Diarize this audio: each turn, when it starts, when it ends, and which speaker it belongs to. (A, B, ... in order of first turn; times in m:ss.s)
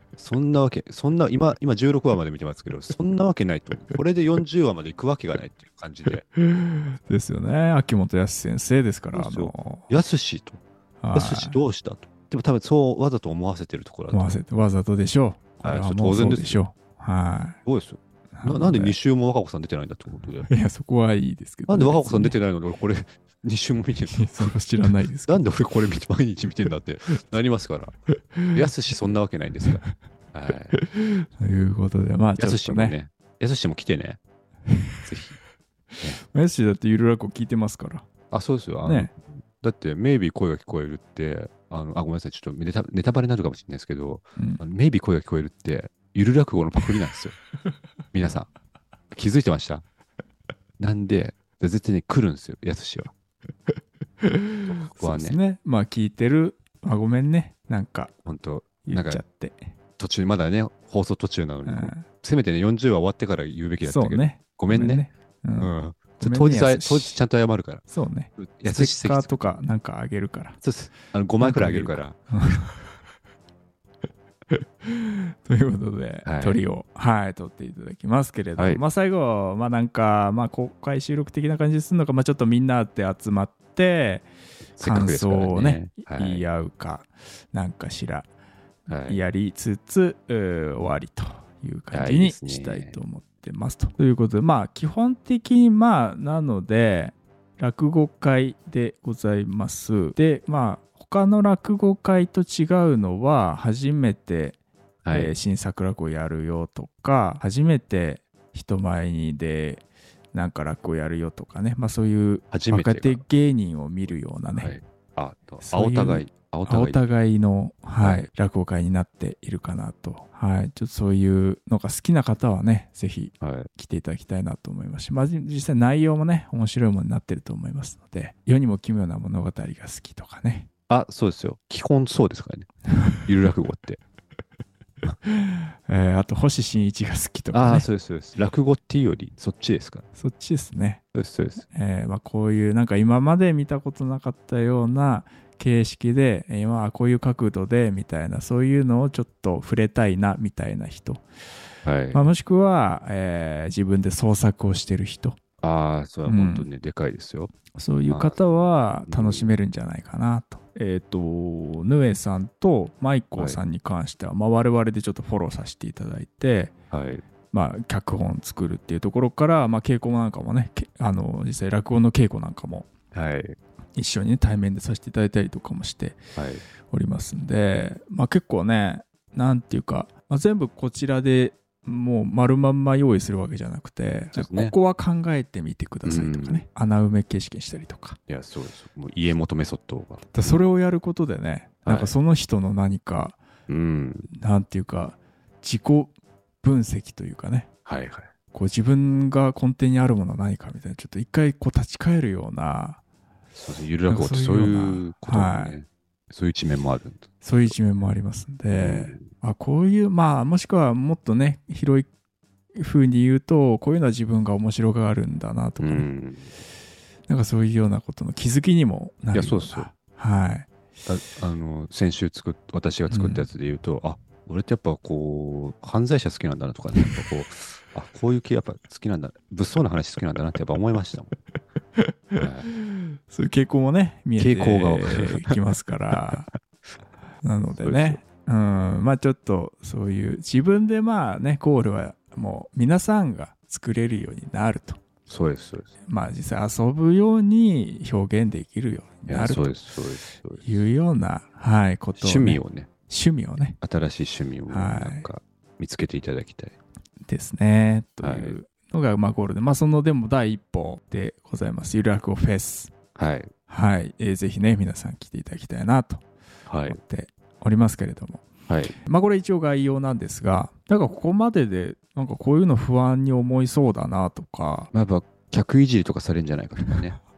0:00.2-0:06.2 A
0:06.6-0:09.9 B
0:09.1-0:10.6 A
0:11.0-0:11.6 B
0:11.1-0:14.4 A
0:14.1-0:17.6 B
0:15.6-0:16.6 A
0:17.6-0:20.5 A
0:18.3-0:19.0 B
0:20.5-0:22.4 B
0:21.7-0:24.5 A
0:24.1-0:25.4 B
0:25.2-0:28.0 A
0:28.5-0:30.8 A
0:30.7-0:33.0 B
0:32.4-0:34.2 A
0:35.0-0:35.4 A
0:36.2-0:38.0 B
0:38.3-0:47.4 A
0:38.8-0:39.1 B
0:48.1-0:48.5 A
0:49.1-0:49.8 A
0:50.8-0:53.1 A
0:54.6-0:55.4 A
0:54.9-0:58.1 B
0:58.2-0:59.2 A
0:58.8-0:59.7 B
1:00.0-1:05.0 A
1:01.6-1:02.1 B
1:03.8-1:07.2 B
1:05.6-1:07.8 A
1:07.9-1:10.6 B
1:08.4-1:09.6 A
1:10.6-1:12.2 A
1:11.4-1:12.8 B
1:14.8-1:28.3 B
1:16.2-1:16.6 A
1:24.8-1:26.4 A
1:28.9-1:29.2 A
1:29.0-1:44.6 B
1:31.9-1:33.0 A
1:45.0-1:45.3 A
1:45.1-1:54.8 B
1:52.5-1:53.2 A
1:54.5-1:57.0 A
1:55.6-2:10.7 B
1:58.0-1:58.3 A
2:03.4-2:03.7 A
2:10.9-2:12.7 A
2:13.2-2:14.0 A
2:15.9-2:17.9 B
2:17.5-2:20.0 A
2:20.2-2:21.0 B
2:21.1-2:21.6 A
2:21.6-2:31.2 B
2:31.8-2:32.2 A
2:32.1-2:35.4 B
2:35.6-2:37.5 A
2:36.3-2:36.7 B
2:37.7-2:46.7 B
2:38.1-2:38.4 A
2:39.1-2:39.5 A
2:46.9-2:47.2 A
2:47.5-2:52.9 B
2:53.1-2:53.6 A
2:54.0-2:56.2 B
2:56.4-2:56.6 A
2:56.9-3:08.2 B
3:04.3-3:04.7 A
3:06.0-3:06.6 A
3:08.3-3:10.6 A
3:10.3-3:13.4 B
3:11.8-3:12.2 A
3:13.7-3:14.3 A
3:14.3-3:17.7 B
3:17.8-3:18.3 A
3:18.5-3:23.0 B
3:23.5-3:27.3 A
3:24.1-3:25.8 B
3:27.4-3:32.1 B
3:28.7-3:29.2 A
3:32.8-3:36.1 B
3:35.8-3:36.5 A
3:37.3-3:40.7 B
3:39.3-3:39.9 A
3:41.0-3:51.3 A
3:43.1-3:43.5 B
3:52.0-3:52.3 B
3:52.4-3:52.7 A
3:52.9-3:56.5 B
3:54.4-3:55.5 A
3:57.4-4:05.0 B
3:57.7-3:58.2 A
4:05.3-4:05.9 A
4:06.0-4:09.8 B
4:09.3-4:10.8 A
4:10.6-4:13.8 B
4:12.2-4:12.9 A
4:13.8-4:16.8 A
4:14.7-4:15.3 B
4:17.2-4:22.9 B
4:18.2-4:18.6 A
4:23.1-4:23.5 A
4:23.7-4:26.2 B
4:26.7-4:27.0 A
4:26.8-4:28.4 B
4:28.7-4:28.9 A
4:29.0-4:34.9 B
4:34.9-4:37.2 A